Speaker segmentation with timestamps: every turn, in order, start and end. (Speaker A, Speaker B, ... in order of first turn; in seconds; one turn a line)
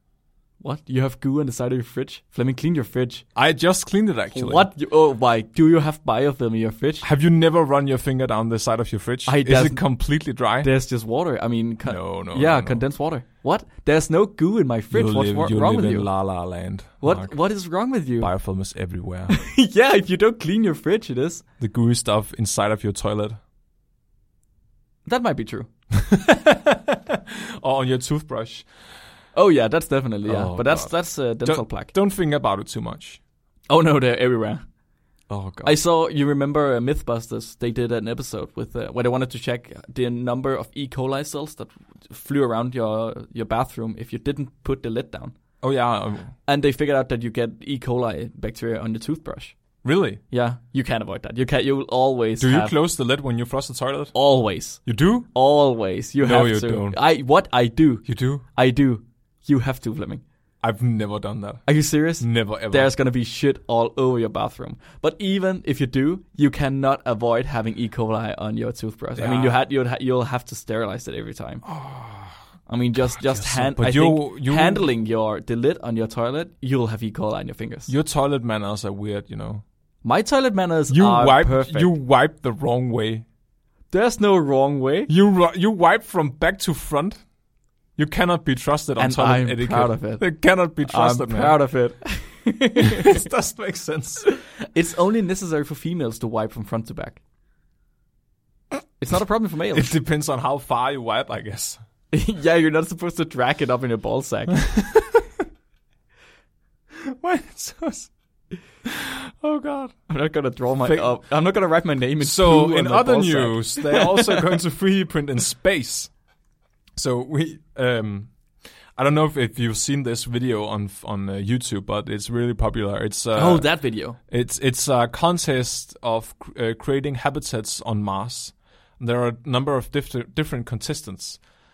Speaker A: 0.6-3.2
Speaker B: 3.4-4.7
Speaker A: 4.3-7.1
Speaker B: 7.0-10.7
Speaker A: 9.3-9.8
Speaker A: 10.6-16.1
Speaker B: 11.9-12.8
Speaker B: 14.9-17.4
Speaker A: 17.0-18.3
Speaker B: 18.2-19.4
Speaker A: 19.3-21.4
Speaker B: 21.6-23.4
Speaker A: 25.1-25.7
Speaker B: 25.9-28.7
Speaker A: 29.4-31.9
Speaker B: 30.3-33.2
Speaker A: 33.7-34.6
Speaker B: 35.3-35.8
Speaker A: 35.6-45.4
Speaker B: 45.6-46.3
Speaker A: 46.5-49.6
Speaker B: 49.8-50.2
Speaker A: 50.3-52.8
Speaker B: 52.4-54.1
Speaker A: 54.1-60.2
Speaker B: 54.9-55.3
Speaker B: 56.2-57.0
Speaker B: 58.1-58.5
Speaker B: 60.6-61.6
Speaker A: 61.7-71.6
Speaker B: 62.2-62.9
Speaker B: 69.2-69.6
Speaker B: 71.6-72.4
Speaker A: 72.7-77.9
Speaker B: 73.0-74.8
Speaker B: 77.9-79.6
Speaker A: 80.0-81.9
Speaker B: 80.9-83.2
Speaker A: 83.9-85.1
Speaker B: 85.1-87.2
Speaker B: 88.0-91.6
Speaker A: 89.0-90.2
Speaker A: 90.8-93.2
Speaker B: 92.8-94.3
Speaker A: 94.6-97.2
Speaker A: 99.0-99.9
Speaker B: 99.7-101.8
Speaker A: 102.1-104.7
Speaker B: 104.7-105.2
Speaker B: 107.1-108.1
Speaker A: 109.4-114.5
Speaker B: 110.8-111.1
Speaker B: 112.2-116.1
Speaker B: 117.0-118.3
Speaker B: 119.0-131.4
Speaker A: 123.3-124.2